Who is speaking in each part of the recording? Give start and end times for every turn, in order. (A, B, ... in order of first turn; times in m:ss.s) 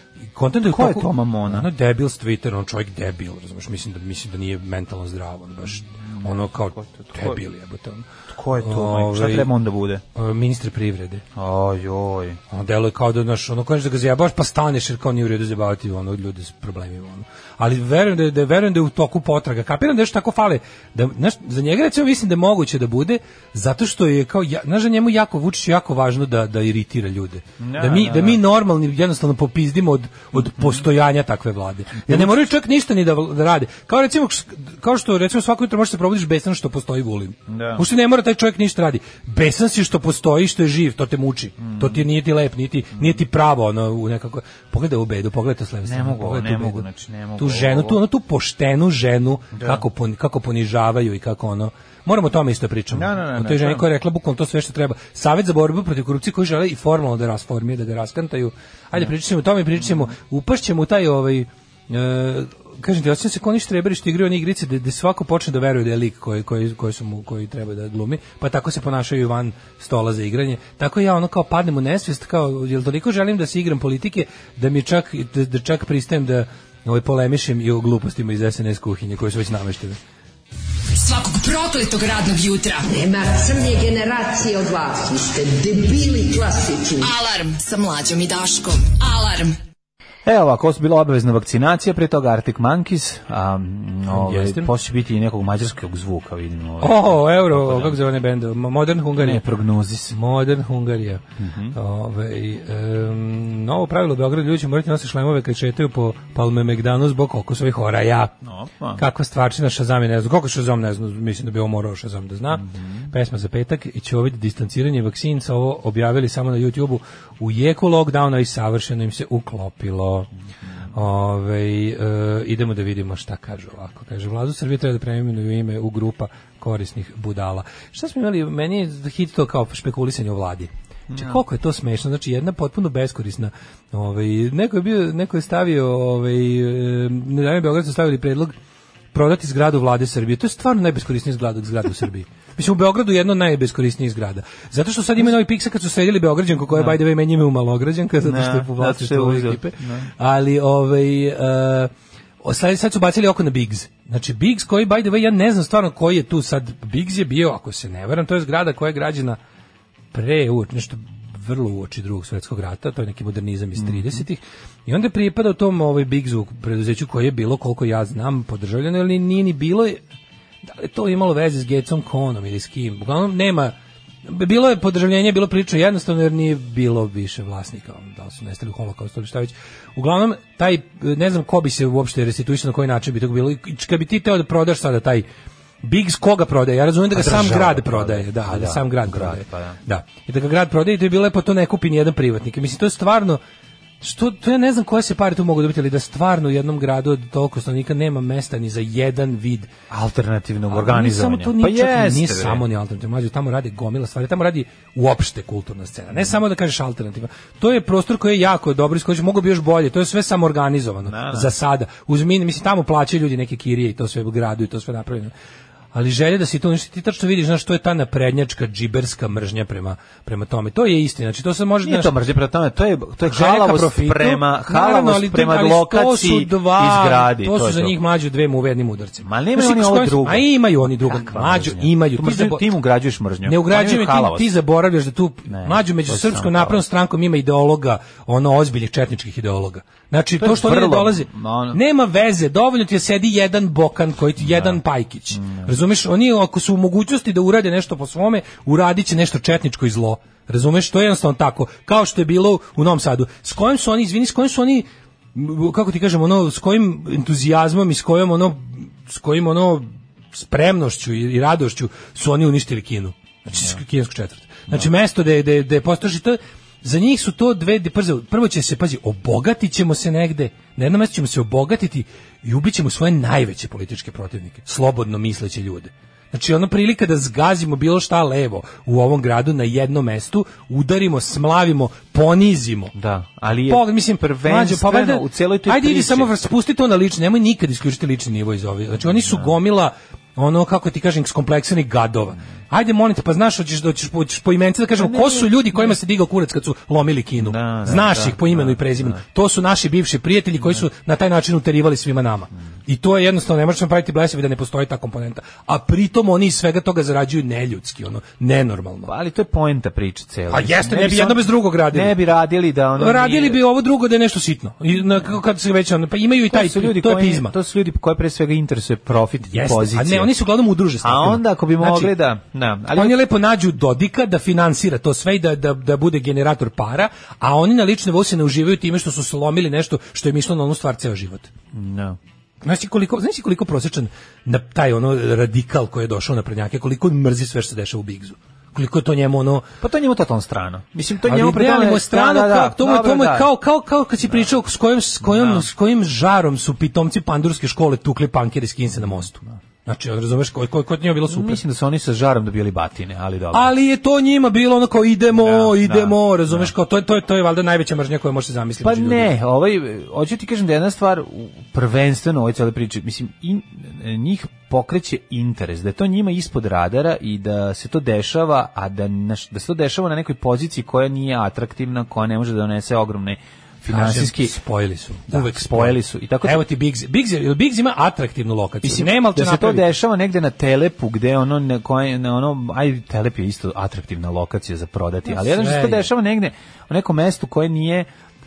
0:00.3-0:08.1 A
0:00.6-0:01.7 B
0:05.9-0:07.4 B
0:08.3-0:10.0 B
0:08.6-0:09.5 A
0:10.1-0:11.2 A
0:11.4-0:12.4 B
0:12.5-0:46.8 A
0:27.6-0:28.4 B
0:32.1-0:32.3 B
0:37.5-0:37.9 B
0:41.6-0:42.0 B
0:45.8-0:48.0 B
0:47.4-1:20.0 A
0:49.5-0:49.8 B
0:52.9-0:53.9 B
1:21.0-1:22.9 C
1:22.9-1:27.1 D
1:27.0-1:29.6 C
1:30.2-1:38.0 B
1:34.1-1:34.7 A
1:36.8-1:39.4 A
1:39.2-1:40.2 B
1:40.1-1:48.3 A
1:41.4-1:41.8 B
1:48.4-1:49.0 B
1:49.0-2:00.3 A
1:52.6-1:53.1 B
2:00.9-2:18.5 A
2:11.1-2:11.4 B
2:19.1-2:31.9 A
2:26.7-2:27.0 B
2:28.2-2:30.1 B
2:32.4-2:39.4 A
2:40.1-2:50.0 A
2:43.8-2:44.2 B
2:50.7-2:53.7 A
2:54.3-3:05.3 A
3:05.8-3:13.4 A
3:07.1-3:09.8 B
3:14.0-3:19.7 A
3:19.9-3:22.6 B
3:20.7-3:35.3 A
3:31.1-3:31.5 B
3:35.9-3:42.1 A
3:41.8-3:48.0 B
3:43.3-3:52.8 A
3:49.2-3:54.5 B
3:53.4-4:42.9 A
3:55.5-3:56.8 B
4:00.4-4:01.8 B
4:04.4-4:04.8 B
4:05.3-4:05.7 B
4:43.0-4:46.3 B
4:43.7-5:09.1 A
4:49.1-4:49.5 B
4:55.0-4:56.0 B
4:57.4-4:59.2 B
5:09.1-5:13.6 B
5:10.5-5:12.2 A
5:13.0-5:17.5 A
5:16.5-5:20.3 B
5:19.5-5:22.1 A
5:21.0-5:23.2 B
5:22.9-5:31.5 A
5:31.7-5:32.2 B
5:32.6-5:39.7 A
5:39.8-5:43.5 B
5:41.2-5:51.6 A
5:45.2-5:45.7 B
5:49.0-5:49.2 B
5:51.3-5:53.7 B
5:53.5-5:59.3 A
5:55.4-5:56.7 B
5:58.8-6:14.6 B
6:13.9-6:19.9 A
6:15.3-6:16.6 B
6:18.8-6:28.1 B
6:25.3-6:26.1 A